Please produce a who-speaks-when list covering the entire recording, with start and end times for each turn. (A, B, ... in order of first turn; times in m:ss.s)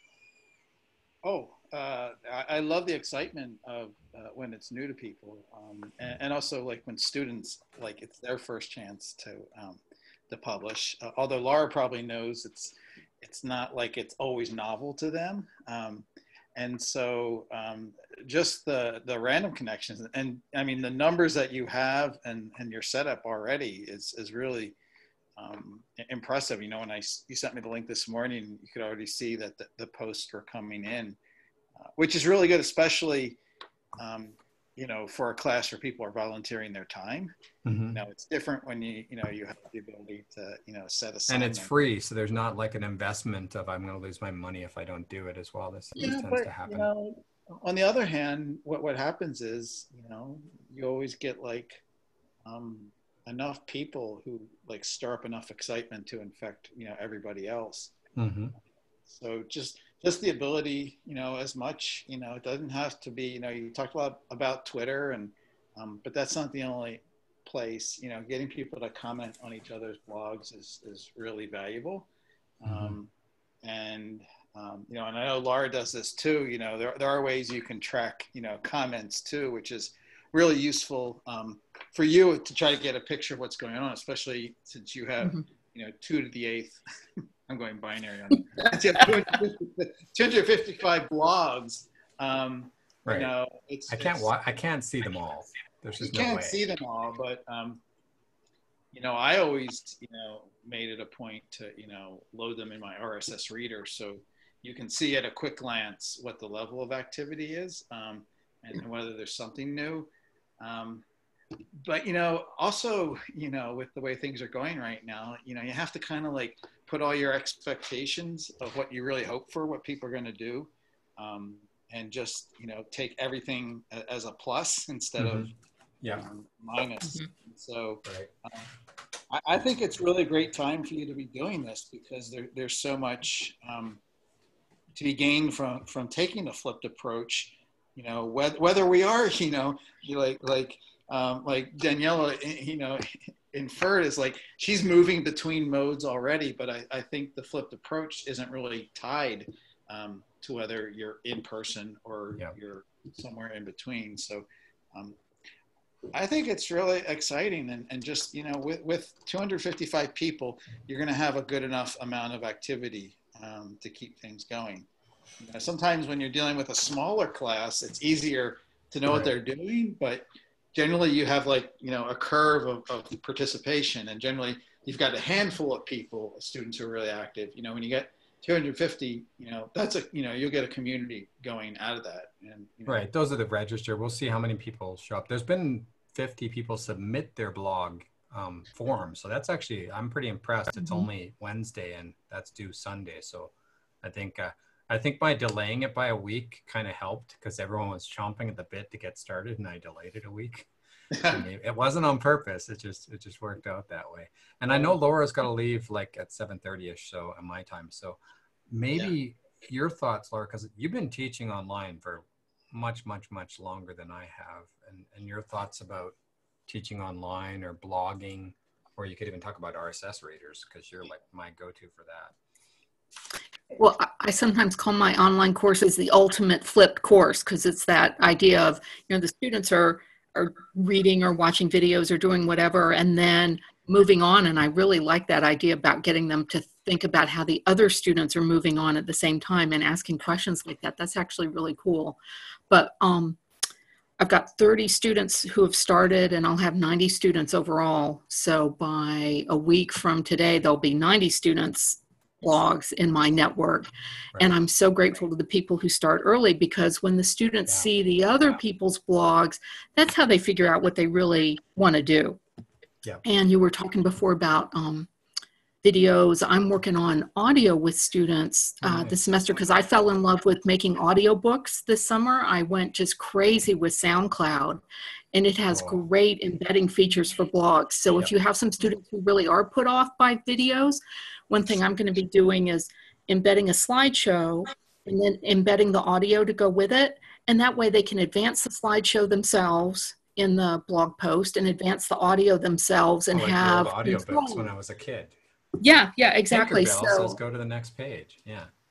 0:01.2-0:24.8 A
0:25.4-0:31.2 A
0:31.8-0:33.4 A
0:34.0-0:37.4 A
0:37.6-0:38.0 B
0:37.9-0:41.7 A
0:41.3-0:46.9 B
0:46.0-0:51.8 A
0:52.4-0:58.0 A
0:58.2-0:58.5 B
0:59.1-1:12.1 A
1:12.6-1:13.1 A
1:12.7-1:13.0 B
1:13.6-1:26.8 A
1:27.5-1:34.4 A
1:33.1-1:33.3 B
1:33.9-1:36.6 B
1:36.0-1:37.8 A
1:38.9-1:51.0 A
1:51.8-2:05.5 A
2:05.2-2:05.5 B
2:06.1-2:08.6 A
2:08.0-2:08.3 B
2:09.3-2:14.0 A
2:15.0-2:35.2 A
2:36.1-2:44.9 A
2:45.4-3:03.0 A
2:49.1-2:49.3 B
3:02.9-3:13.5 B
3:14.0-3:20.7 B
3:21.1-3:21.4 A
3:21.2-3:28.2 B
3:24.7-3:25.0 A
3:28.7-3:36.2 B
3:36.7-3:42.3 B
3:43.8-4:03.4 C
4:04.2-4:22.4 C
4:23.2-4:25.1 C
4:25.8-4:54.7 C
4:28.8-4:29.2 B
4:35.7-4:36.0 B
4:53.3-4:55.3 B
4:55.8-4:57.4 C
4:56.5-4:58.7 B